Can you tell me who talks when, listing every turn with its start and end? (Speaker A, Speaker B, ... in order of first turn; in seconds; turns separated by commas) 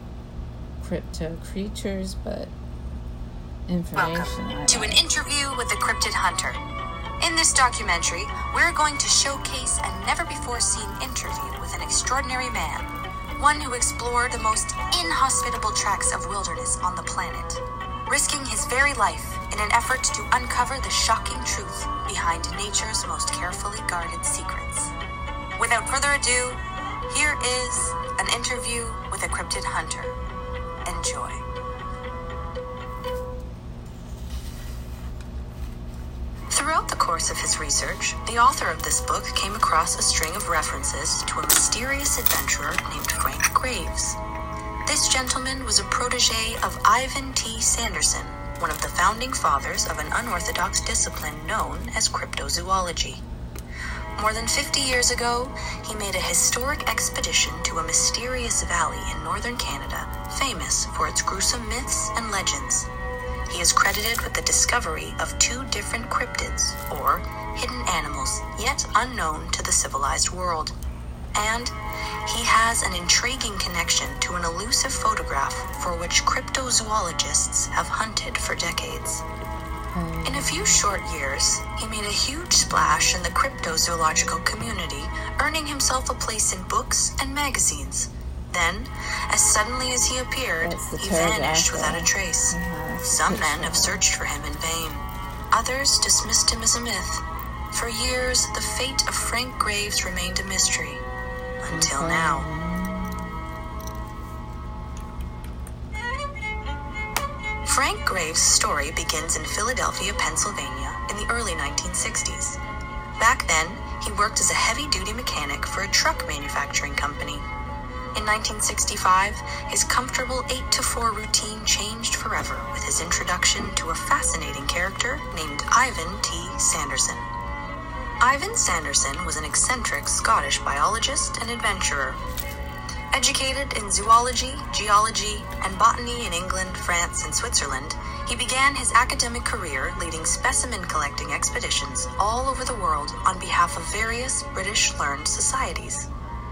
Speaker A: 0.8-2.5, Speaker A: 3.7-5.0, Speaker B: 4.0-6.6, Speaker B: 7.2-24.9, Speaker B: 25.6-30.1, Speaker B: 30.9-31.4, Speaker B: 36.5-44.2, Speaker B: 44.9-53.2, Speaker B: 54.2-62.9, Speaker B: 63.5-70.7, Speaker B: 71.3-71.7, Speaker B: 72.2-79.2, Speaker A: 79.9-80.8, Speaker B: 80.2-101.0, Speaker A: 82.7-83.1, Speaker A: 90.6-94.0, Speaker B: 101.6-102.5, Speaker A: 101.7-103.3, Speaker B: 107.6-112.6, Speaker B: 113.2-117.4, Speaker B: 118.1-127.2, Speaker B: 128.2-132.2, Speaker B: 133.1-146.1